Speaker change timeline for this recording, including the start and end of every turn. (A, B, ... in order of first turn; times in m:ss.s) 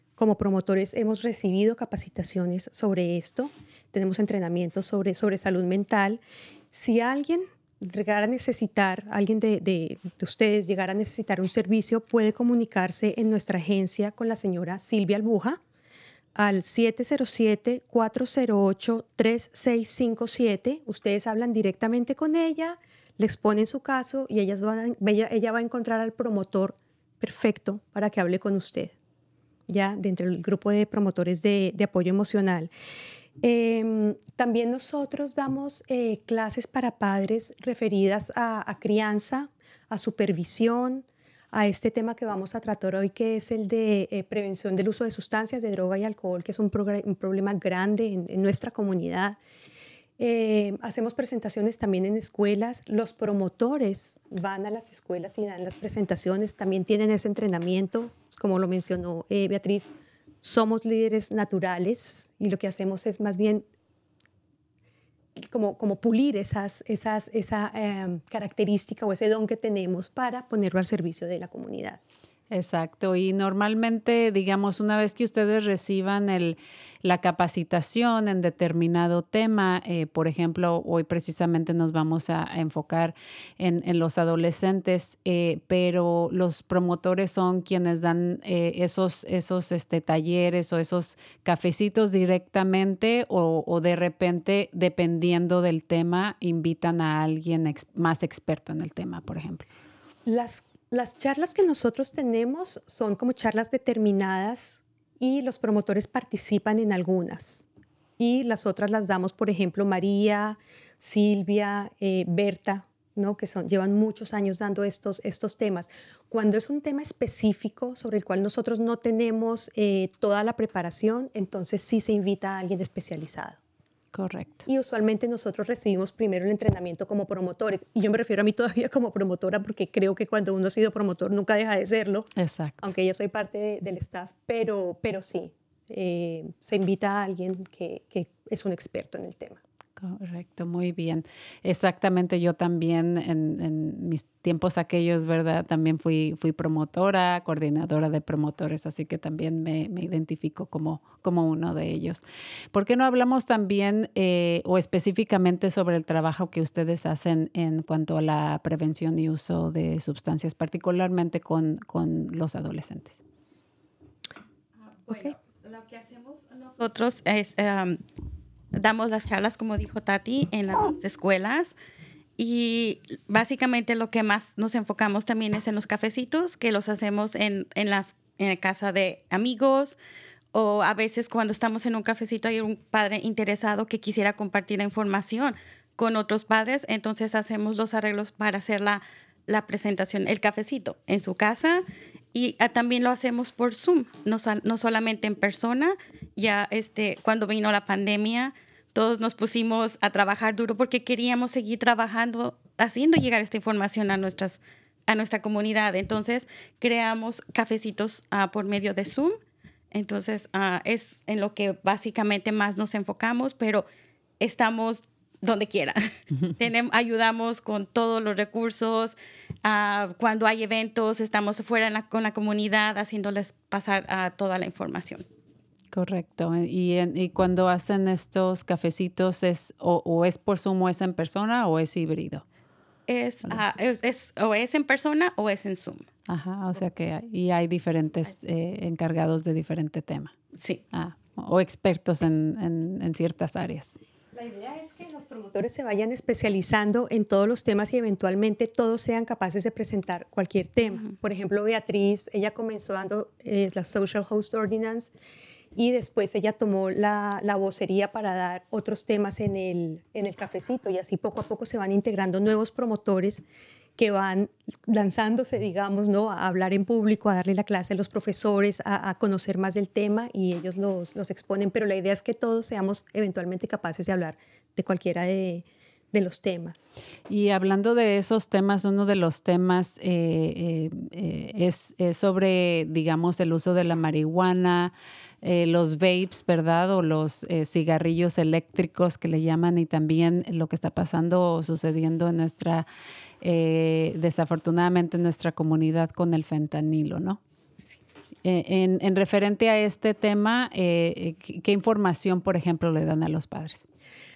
0:00.2-0:15.6 A
0:16.4-0:28.9 A
0:29.7-0:32.7 A
0:33.4-0:49.4 A
0:50.2-0:59.9 A
1:00.4-1:03.6 A
1:05.4-1:12.0 A
1:12.5-1:39.7 B
1:40.3-1:47.6 A
1:48.2-2:03.6 A
2:04.1-2:04.6 B
2:04.7-2:12.3 A
2:12.4-2:12.9 B
2:12.8-2:19.6 A
2:20.0-2:32.2 B
2:32.7-2:43.2 B
2:45.0-2:48.0 C
2:48.7-2:51.8 C
2:52.4-3:00.0 C
3:00.5-3:29.4 C
3:29.9-3:33.9 C
3:34.4-3:36.0 C
3:36.6-3:45.2 C
3:45.9-3:52.4 B
3:53.1-3:56.1 C
3:56.3-4:00.3 B
4:00.6-4:00.8 C
4:00.9-4:04.0 B
4:04.3-4:15.1 A
4:15.8-4:23.4 A
4:24.0-4:36.9 A
4:37.3-4:52.9 B
4:53.4-4:57.4 B
4:58.4-5:03.9 B